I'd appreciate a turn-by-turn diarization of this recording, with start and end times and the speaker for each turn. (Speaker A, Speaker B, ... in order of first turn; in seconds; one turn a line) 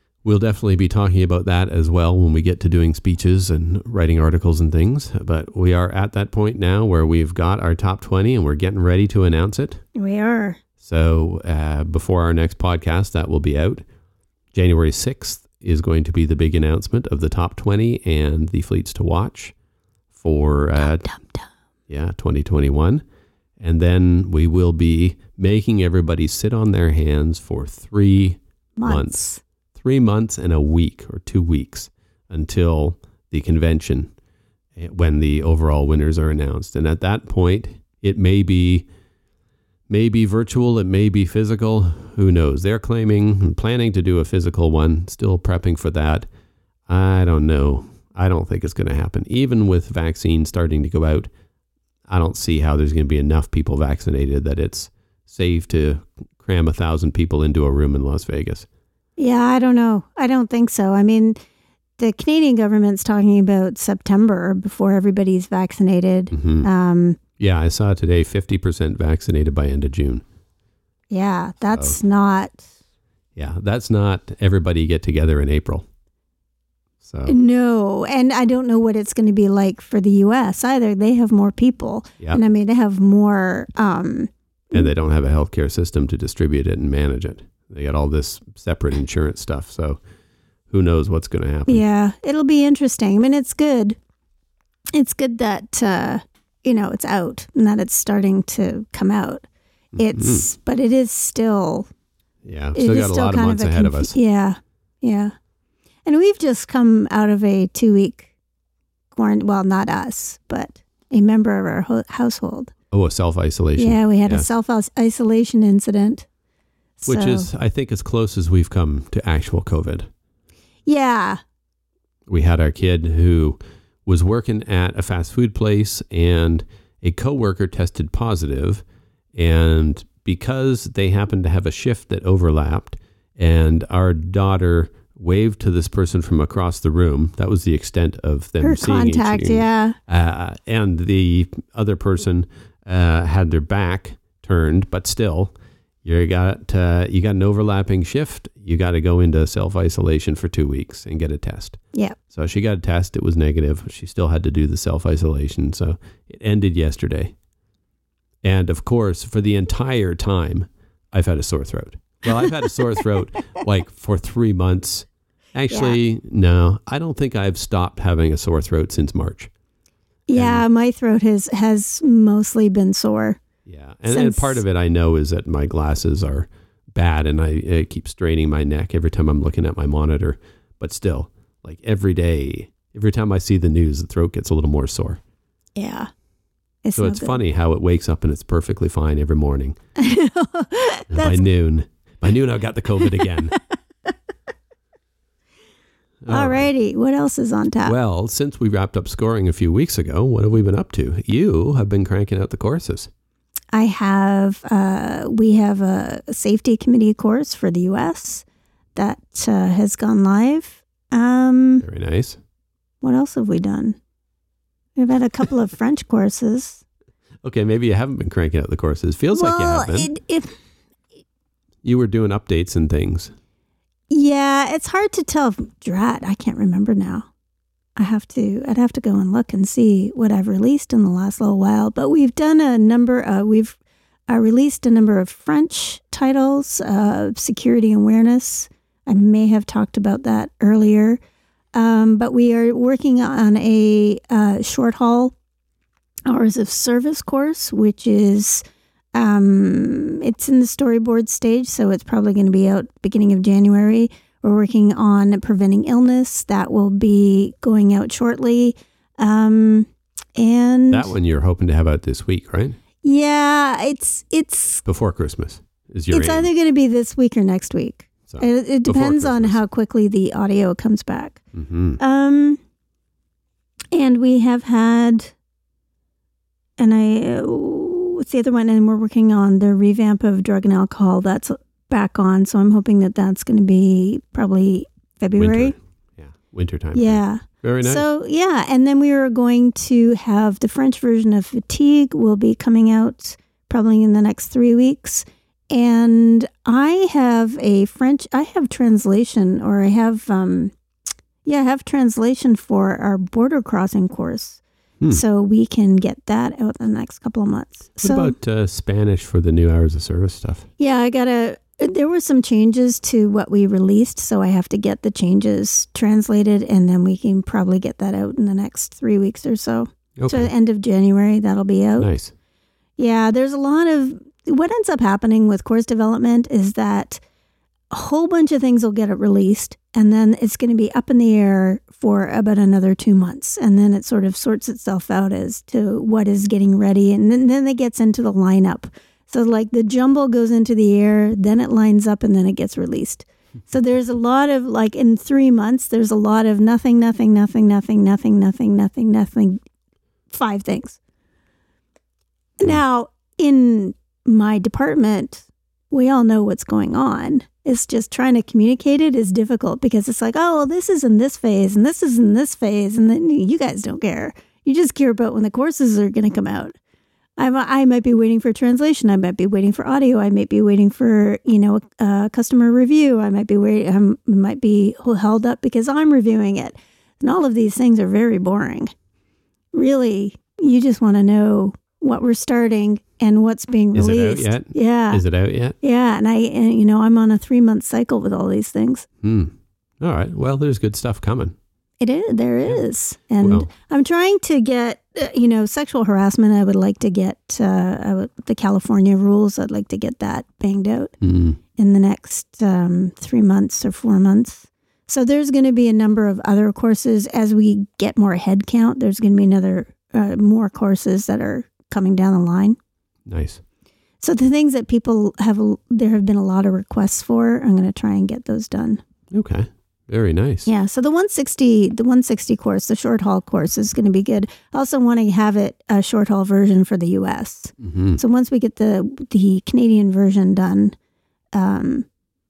Speaker A: 0.2-9.8
Speaker B: 9.9-10.6
Speaker A: 10.8-13.8
Speaker A: 14.5-19.5
Speaker A: 20.1-21.1
Speaker B: 20.8-21.5
Speaker A: 21.9-23.0
Speaker A: 23.6-29.2
Speaker B: 28.8-29.4
Speaker A: 29.8-34.1
Speaker A: 34.8-38.9
Speaker A: 39.9-46.3
Speaker A: 46.9-51.3
Speaker A: 52.1-58.7
Speaker B: 59.2-61.4
Speaker B: 62.0-67.2
Speaker A: 66.3-66.7
Speaker A: 67.4-70.2
Speaker B: 71.1-72.7
Speaker A: 71.7-72.0
Speaker A: 73.4-75.9
Speaker A: 77.0-77.3
Speaker B: 77.3-84.9
Speaker A: 84.7-90.0
Speaker A: 90.7-91.8
Speaker B: 91.7-94.0
Speaker B: 94.9-99.5
Speaker A: 100.0-100.5
Speaker B: 100.0-101.9
Speaker A: 102.4-104.2
Speaker B: 102.8-105.3
Speaker B: 106.0-108.3
Speaker B: 109.1-112.7
Speaker A: 112.9-114.5
Speaker B: 113.8-116.3
Speaker B: 117.0-117.5
Speaker A: 117.1-120.1
Speaker B: 120.9-121.4
Speaker A: 122.3-128.8
Speaker A: 129.4-145.5
Speaker B: 138.6-140.0
Speaker A: 146.0-151.8
Speaker A: 152.3-157.3
Speaker A: 158.4-169.5
Speaker B: 165.7-166.0
Speaker B: 170.3-173.4
Speaker A: 170.4-170.6
Speaker A: 173.7-185.2
Speaker B: 174.1-174.6
Speaker B: 185.8-186.1
Speaker B: 186.8-187.4
Speaker A: 187.0-189.8
Speaker B: 190.0-191.5
Speaker A: 191.1-193.6
Speaker A: 196.2-196.7
Speaker B: 196.3-198.0
Speaker A: 197.8-203.1
Speaker B: 203.7-208.4
Speaker B: 209.0-211.8
Speaker A: 211.8-212.4
Speaker B: 213.0-214.0
Speaker B: 215.0-216.8
Speaker A: 217.4-220.1
Speaker B: 219.3-220.5
Speaker A: 221.8-223.3
Speaker B: 224.1-227.3
Speaker B: 228.0-241.2
Speaker B: 241.8-245.3
Speaker B: 246.3-248.6
Speaker B: 249.2-261.1
Speaker A: 260.9-262.8
Speaker B: 263.0-264.8
Speaker A: 264.9-266.5
Speaker B: 266.1-271.4
Speaker A: 268.3-269.6
Speaker A: 271.5-272.0
Speaker B: 272.0-272.6
Speaker B: 273.9-275.4
Speaker B: 276.8-285.7
Speaker A: 285.4-288.1
Speaker B: 286.9-300.7
Speaker B: 301.4-308.3
Speaker A: 308.0-310.7
Speaker B: 310.8-322.1
Speaker A: 320.2-320.5
Speaker A: 322.0-322.3
Speaker B: 323.0-327.2
Speaker B: 327.9-349.6
Speaker B: 350.3-351.0
Speaker B: 352.6-366.8
Speaker B: 367.4-378.9
Speaker B: 379.7-385.2
Speaker A: 383.9-385.8
Speaker B: 385.8-389.1
Speaker A: 389.2-391.6
Speaker B: 392.0-401.1
Speaker A: 393.4-393.7
Speaker A: 401.2-401.6
Speaker B: 401.8-412.8
Speaker A: 413.3-413.6
Speaker B: 414.2-419.0
Speaker A: 419.3-420.7
Speaker B: 420.7-430.9
Speaker A: 427.8-428.2
Speaker B: 431.5-432.1